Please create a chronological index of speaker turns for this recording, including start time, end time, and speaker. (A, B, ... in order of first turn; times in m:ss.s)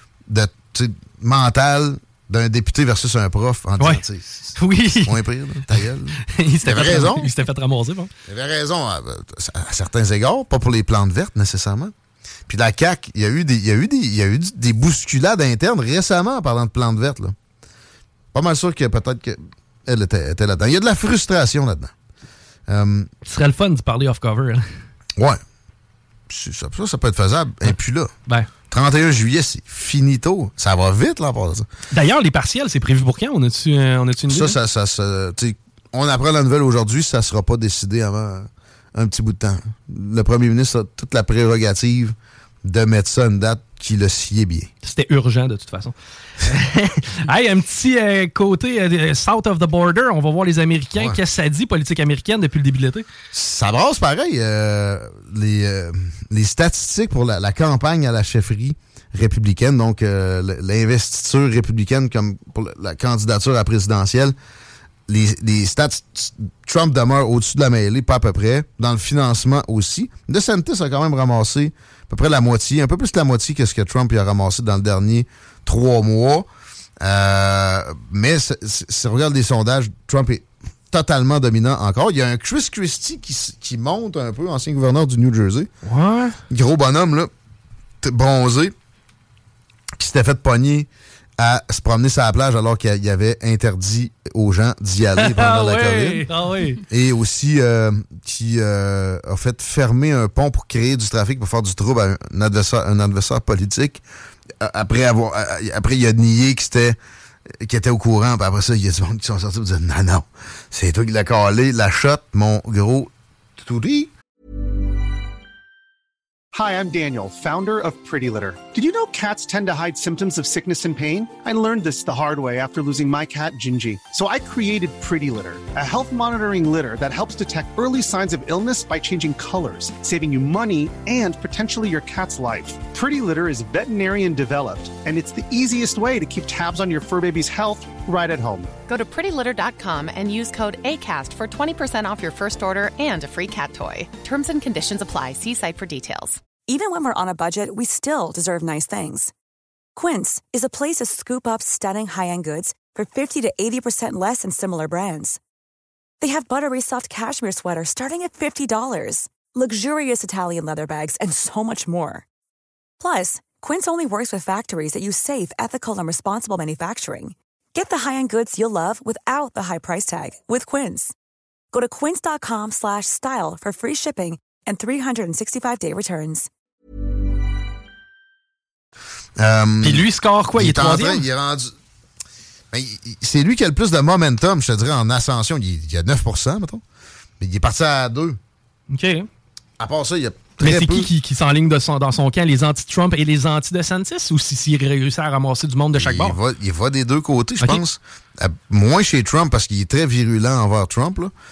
0:00.3-0:04.5 A
0:04.6-0:05.2 B
0:05.0-0:07.3 A
0:06.3-0:08.1 B
0:08.3-0:11.9 A
0:12.5-0:17.4 A
0:18.3-0:21.9 A
0:22.7-0:23.1 A
0:23.3-0:24.7 B
0:26.3-0:28.1 A
0:28.7-0:31.7 A
0:31.9-0:34.6 B
0:34.3-0:44.7 A
0:44.8-0:53.0 B
0:53.3-1:04.4 A
1:05.1-1:16.5 A
1:17.0-1:25.7 A
1:25.9-1:26.4 B
1:26.5-1:27.3 A
1:28.0-1:28.7 A
1:30.0-1:36.2 A
1:35.2-1:36.8 B
1:36.9-1:44.0 A
1:44.6-1:47.0 A
1:47.6-1:54.1 A
1:56.5-2:18.7 C
2:18.9-2:26.4 D
2:26.6-2:29.3 E
2:30.0-2:35.4 E
2:36.2-2:42.2 E
2:43.0-2:51.1 E
2:51.7-2:56.5 E
2:59.4-3:01.7 A
2:59.8-3:01.3 B
3:02.7-3:06.8 A
3:07.4-3:08.4 A
3:08.9-3:09.3 B
3:09.8-3:11.1 A
3:10.6-3:16.4 B
3:16.0-3:21.3 A